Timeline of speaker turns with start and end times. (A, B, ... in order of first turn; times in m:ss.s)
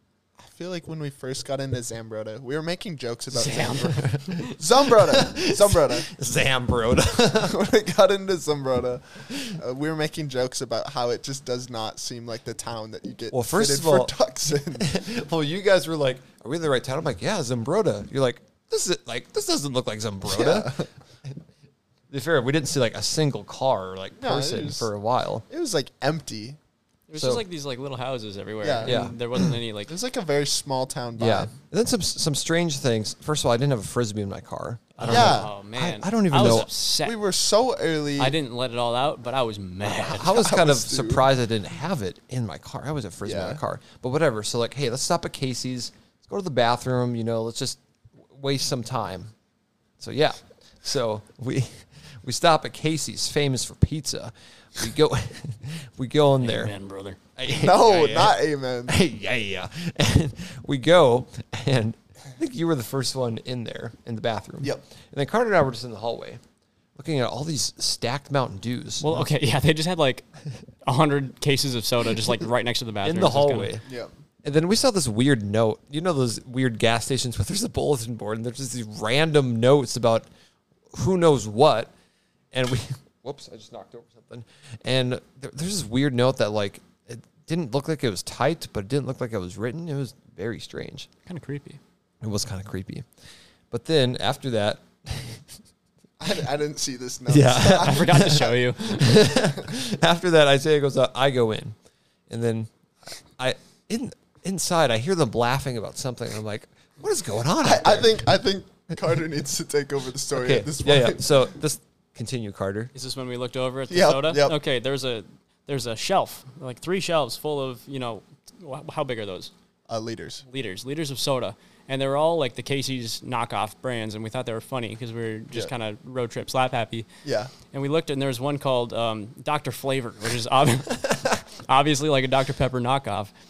0:00.4-0:06.1 A
0:03.3-0:04.5 B
0:03.8-0:07.6 C
0:07.4-0:15.0 A
0:09.3-0:09.6 C
0:13.3-0:14.1 C
0:14.8-0:21.4 C
0:20.2-0:20.9 A
0:22.1-0:25.4 C
0:24.2-0:24.9 A
0:25.5-0:26.6 A
0:27.1-0:29.9 B
0:27.2-0:27.4 C
0:28.6-0:29.2 A
0:28.8-0:29.1 C
0:29.9-0:31.5 A
0:31.2-0:36.7 C
0:35.0-0:37.2 B
0:35.0-0:35.5 A
0:37.0-0:38.4 A
0:38.2-0:40.4 B
0:40.0-0:49.3 C
0:40.1-0:41.3 A
0:43.2-0:43.6 A
0:50.0-0:56.7 C
0:56.4-0:57.2 B
0:57.4-1:06.4 C
0:57.4-0:59.0 A
1:07.0-1:09.2 C
1:09.0-1:10.2 B
1:10.8-1:13.7 B
1:13.0-1:13.8 C
1:13.8-1:14.1 A
1:14.4-1:20.3 C
1:20.9-1:21.9 C
1:22.5-1:31.1 C
1:31.2-1:31.8 B
1:32.2-1:33.0 C
1:33.7-1:35.4 C
1:36.2-1:38.7 A
1:37.3-1:41.7 C
1:37.6-1:39.1 B
1:42.3-1:48.2 C
1:47.6-1:51.4 A
1:50.3-1:52.9 C
1:52.9-1:59.5 B
1:53.9-1:54.6 A
1:59.9-2:00.4 A
2:00.5-2:07.1 B
2:07.2-2:07.5 A
2:07.7-2:13.3 B